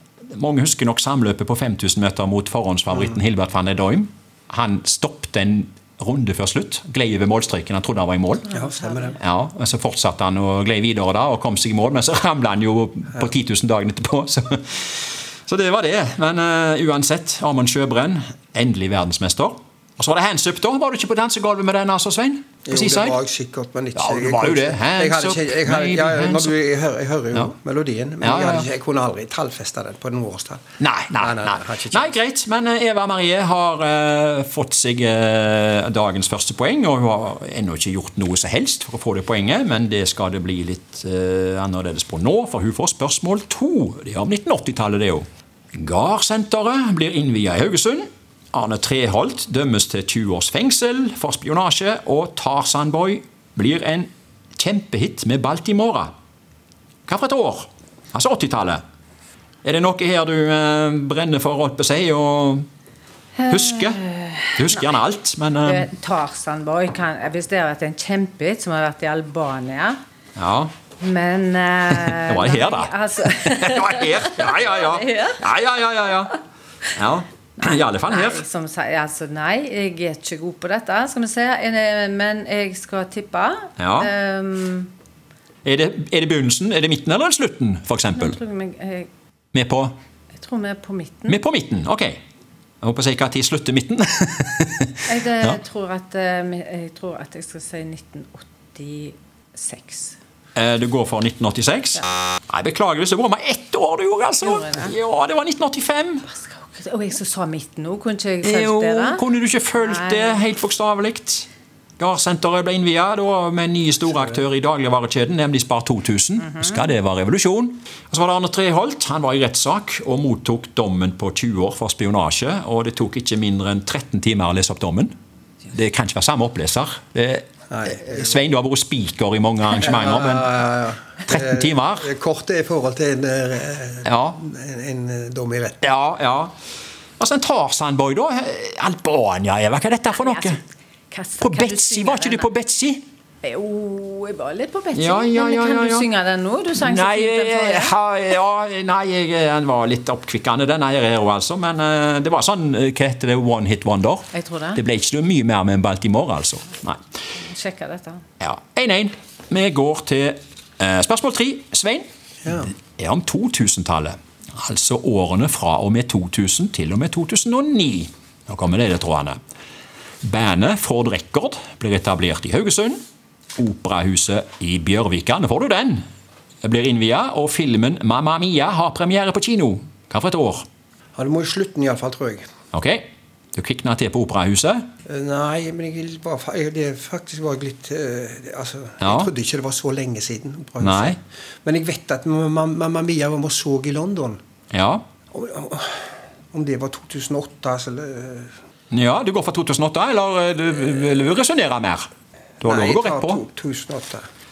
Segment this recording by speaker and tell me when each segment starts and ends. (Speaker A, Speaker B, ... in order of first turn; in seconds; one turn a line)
Speaker A: 0.3-8.5
Speaker B: 8.5-9.2
Speaker C: 8.5-9.2
Speaker A: 9.2-23.2
Speaker C: 22.7-30.6
Speaker A: 23.9-26.6
Speaker A: 28.2-28.7
Speaker A: 30.8-56.1
Speaker C: 31.1-32.1
Speaker A: 57.1-58.8
Speaker A: 59.6-62.7
Speaker B: 63.4-65.0
Speaker A: 63.5-65.9
Speaker B: 65.6-70.0
Speaker A: 70.4-70.7
Speaker B: 71.0-75.4
Speaker A: 72.0-76.4
Speaker A: 77.0-78.4
Speaker B: 77.6-84.9
Speaker A: 83.8-84.1
Speaker A: 85.7-88.4
Speaker B: 88.1-89.1
Speaker A: 89.5-89.9
Speaker B: 90.3-91.4
Speaker A: 91.3-92.2
Speaker A: 92.8-95.6
Speaker B: 95.1-100.2
Speaker A: 100.6-106.2
Speaker B: 104.4-105.0
Speaker B: 106.3-110.5
Speaker A: 108.4-111.5
Speaker A: 112.0-125.1
Speaker B: 116.4-116.9
Speaker A: 125.7-130.6
Speaker C: 127.7-128.2
Speaker C: 129.8-135.8
Speaker A: 131.3-132.1
Speaker A: 134.1-134.4
Speaker A: 135.8-136.5
Speaker A: 137.2-140.6
Speaker B: 140.1-140.6
Speaker B: 141.1-142.5
Speaker A: 141.4-143.0
Speaker B: 143.4-147.9
Speaker A: 145.0-146.1
Speaker A: 146.8-157.0
Speaker B: 154.3-154.8
Speaker B: 157.4-158.2
Speaker A: 158.4-169.4
Speaker C: 162.4-162.7
Speaker A: 170.2-173.0
Speaker A: 173.6-176.0
Speaker A: 176.6-180.7
Speaker C: 181.2-182.4
Speaker A: 182.7-183.0
Speaker A: 183.6-184.8
Speaker C: 185.1-194.4
Speaker A: 189.0-189.3
Speaker A: 190.8-191.2
Speaker A: 194.7-195.0
Speaker C: 195.3-196.0
Speaker C: 196.5-198.5
Speaker A: 198.9-202.1
Speaker A: 202.6-203.4
Speaker C: 202.6-204.2